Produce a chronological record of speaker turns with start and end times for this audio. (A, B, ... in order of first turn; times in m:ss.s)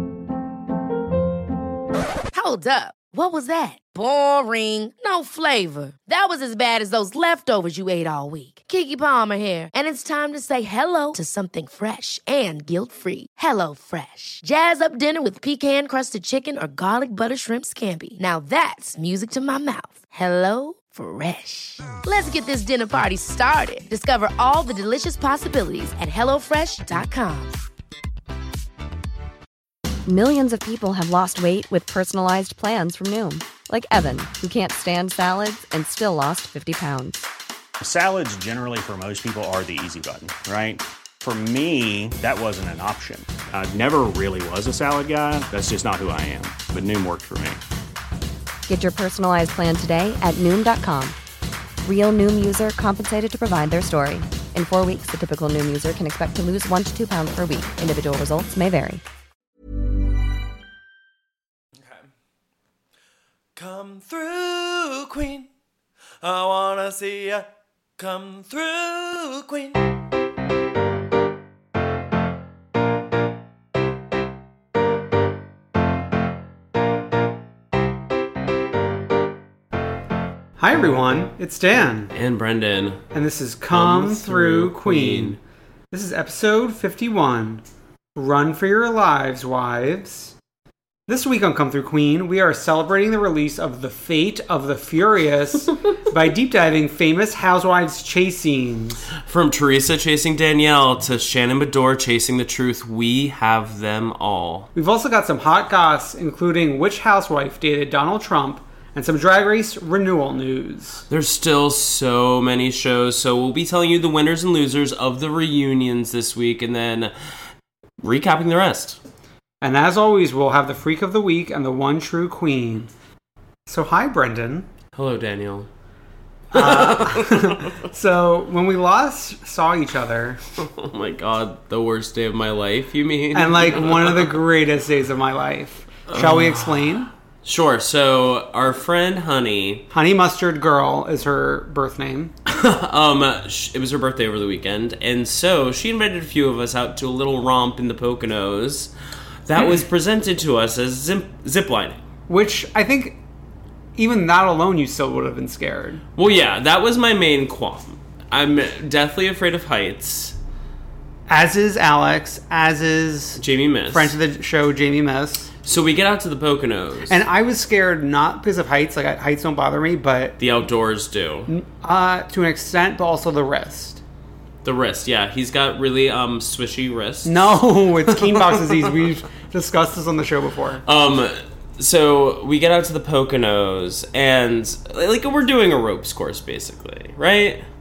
0:02.3-0:27.6 A
0:30.1-0:37.3 B
0:37.8-0:47.6 C
0:48.7-0:51.2 B
0:51.8-0:59.0 B
1:01.8-1:02.1 D
1:03.6-1:05.5 D
1:06.2-1:07.5 D
1:08.0-1:09.8 D
1:20.6-1:22.1 E
1:22.1-1:23.0 F
1:23.1-1:25.4 E
1:23.7-1:25.4 F
1:25.9-1:27.6 E
1:28.2-1:30.4 E
1:31.1-1:39.0 E
1:39.2-1:44.7 F
1:44.8-1:51.0 E
1:51.1-1:57.1 F
1:58.0-1:59.0 F
1:59.6-2:02.9 E
2:03.7-2:04.7 E
2:04.9-2:05.7 F
2:06.5-2:07.7 F
2:06.5-2:10.4 E
2:10.6-2:14.4 F
2:13.3-2:17.1 E
2:16.1-2:16.8 F
2:17.4-2:19.9 F
2:19.9-2:22.3 E
2:22.5-2:28.9 F
2:29.5-2:32.0 F
2:32.3-2:33.2 E
2:34.0-2:36.0 E
2:36.2-2:40.4 F
2:41.3-2:45.5 E
2:43.4-2:44.1 F
2:45.6-2:47.2 F
2:47.1-2:50.4 E
2:50.4-2:51.5 F
2:51.5-2:54.0 E
2:54.6-2:58.7 F
2:57.3-3:00.8 E
3:00.9-3:07.6 F